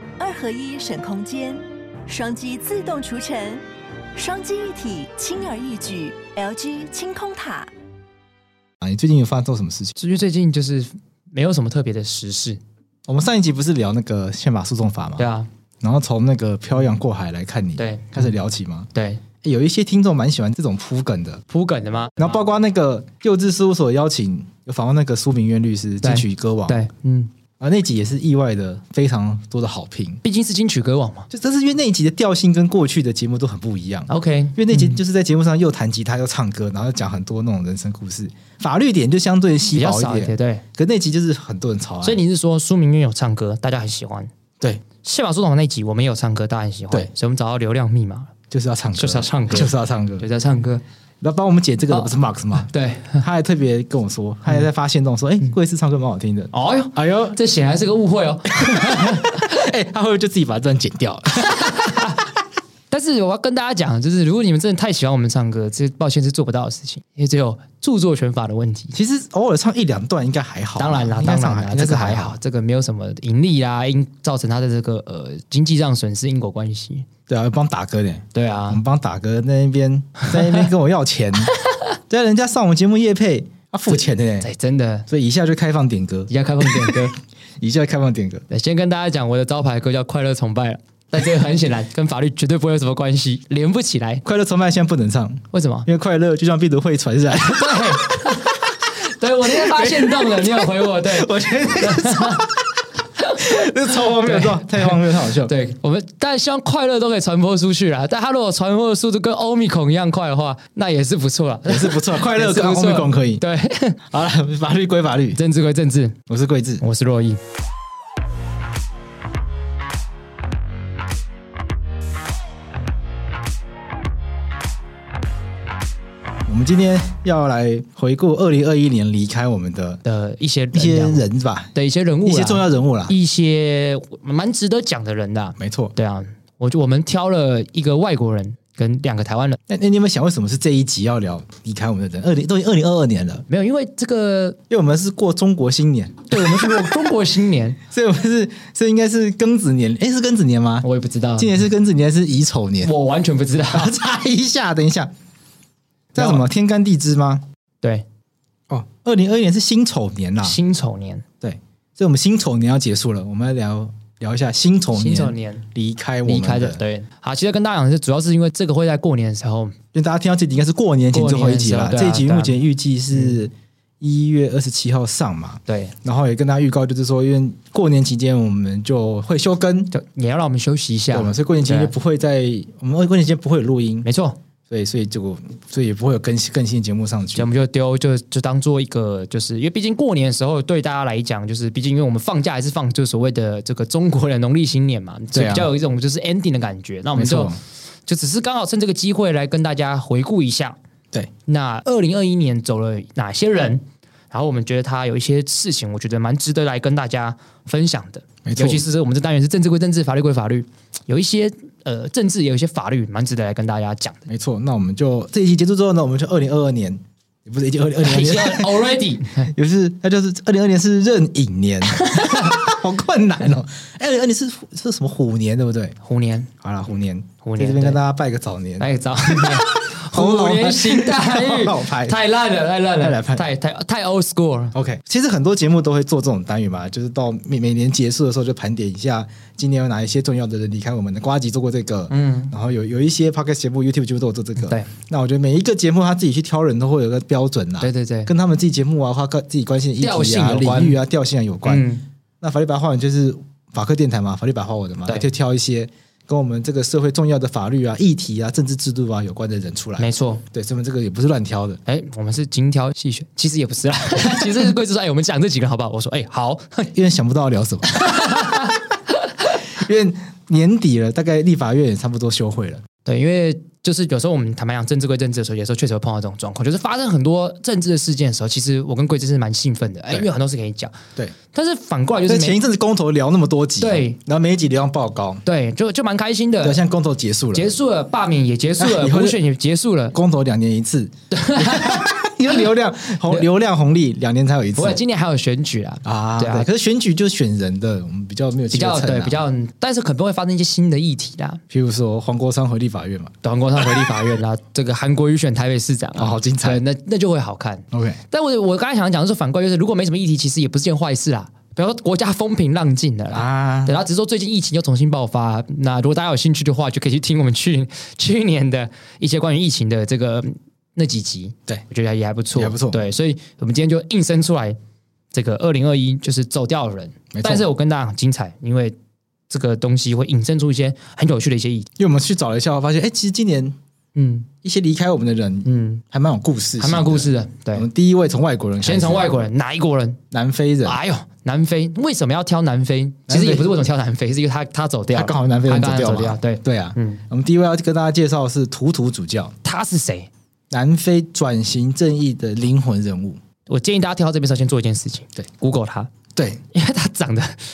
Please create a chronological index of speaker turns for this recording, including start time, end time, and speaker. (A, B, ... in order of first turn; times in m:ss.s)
0:00.2-0:03.6 A
0:04.1-0:07.7 A
0:08.8-0:10.0 B
0:10.0-0:12.6 C
0:13.1-0:15.2 B
0:15.2-0:15.5 C
0:15.8-0:18.9 B
0:17.8-0:18.3 C
0:18.9-0:19.2 C
0:19.4-0:21.4 B
0:21.5-0:22.4 C
0:22.2-0:26.8 B
0:26.0-0:27.3 C
0:27.6-0:30.2 B
0:30.2-0:31.3 C
0:31.3-0:42.2 B
0:34.1-0:35.0 C
0:39.7-0:40.6 C
0:42.0-0:44.3 C
0:45.0-0:48.3 C
0:48.5-0:50.2 B
0:49.0-0:50.8 C
0:51.2-0:52.7 B
0:51.9-0:53.2 C
0:53.2-0:57.4 B
0:56.5-0:59.6 C
0:58.5-1:02.1 B
1:01.4-1:02.2 C
1:02.9-1:09.0 C
1:08.9-1:12.4 B
1:10.8-1:17.1 C
1:17.3-1:21.5 B
1:18.3-1:18.8 C
1:22.1-1:24.5 B
1:24.4-1:25.1 C
1:25.1-1:28.4 B
1:26.3-1:27.2 C
1:28.5-1:34.2 C
1:34.2-1:38.6 B
1:35.5-1:35.9 C
1:37.4-1:42.4 C
1:39.4-1:42.7 B
1:43.2-1:54.0 C
1:43.4-1:45.5 B
1:51.7-1:53.4 B
1:54.1-1:55.4 B
1:55.3-1:56.2 C
1:56.3-1:56.8 B
1:56.8-1:57.4 C
2:06.4-2:10.0 B
2:10.0-2:19.6 C
2:10.7-2:11.7 B
2:12.2-2:13.1 B
2:15.6-2:15.9 B
2:19.7-2:23.4 B
2:23.5-2:24.6 C
2:24.7-2:27.0 B
2:26.3-2:27.8 C
2:27.9-2:30.8 B
2:30.8-2:31.6 C
2:31.4-2:32.9 B
2:32.8-2:33.9 C
2:33.7-2:35.1 B
2:36.1-2:37.4 B
2:36.2-2:36.4 C
2:38.7-2:40.6 B
2:40.4-2:41.2 C
2:41.4-2:46.8 B
2:44.9-2:45.7 C
2:46.2-2:49.8 C
2:49.9-2:59.9 B
2:51.1-2:52.6 C
2:55.7-2:55.9 C
2:59.9-3:01.9 C
3:01.1-3:04.1 B
3:04.0-3:04.4 C
3:04.7-3:07.5 B
3:07.3-3:20.8 C
3:15.3-3:15.7 B
3:17.2-3:17.6 B
3:21.5-3:34.3 C
3:28.4-3:28.8 B
3:34.3-3:38.8 B
3:38.0-3:39.5 C
3:39.4-3:46.0 B
3:41.8-3:42.8 C
3:46.0-3:46.5 C
3:46.6-3:52.2 B
3:47.4-3:48.0 C
3:48.8-3:54.7 C
3:53.0-3:53.4 B
3:54.7-4:11.9 B
4:02.1-4:02.5 C
4:04.6-4:04.9 C
4:07.8-4:08.3 C
4:10.0-4:11.0 C
4:11.6-4:12.0 C
4:12.4-4:21.8 B
4:20.0-4:20.4 C
4:21.8-4:26.8 C
4:24.2-4:24.5 B
4:26.8-4:28.0 B
4:27.9-4:28.8 C
4:29.7-4:32.8 B
4:33.0-4:41.0 C
4:41.5-4:42.6 C
4:42.3-4:45.4 B
4:43.8-4:44.2 C
4:45.4-4:46.8 C
4:46.6-4:47.7 B
4:47.5-4:50.1 C
4:48.8-4:49.4 B
4:50.1-4:55.0 B
4:51.3-4:52.1 C
4:54.8-4:56.7 C
4:56.0-4:59.4 B
4:58.7-5:01.6 C
5:01.7-5:03.3 B
5:03.4-5:24.8 C
5:06.2-5:06.8 B
5:07.9-5:08.2 B
5:13.3-5:14.0 B
5:22.5-5:23.0 B
5:25.3-5:29.0 C
5:27.3-5:27.6 B
5:29.5-5:31.9 C
5:32.0-5:33.8 B
5:34.1-5:34.5 C
5:34.6-5:39.4 B
5:35.6-5:36.0 C
5:36.8-5:37.9 C
5:38.8-5:40.2 C
5:40.3-5:41.0 B
5:40.8-5:47.2 C
5:43.3-5:43.7 B
5:45.1-5:49.5 B
5:49.6-5:50.3 C
5:50.7-5:53.4 B
5:53.7-5:56.1 C
5:56.3-5:56.6 B
5:56.7-5:57.6 C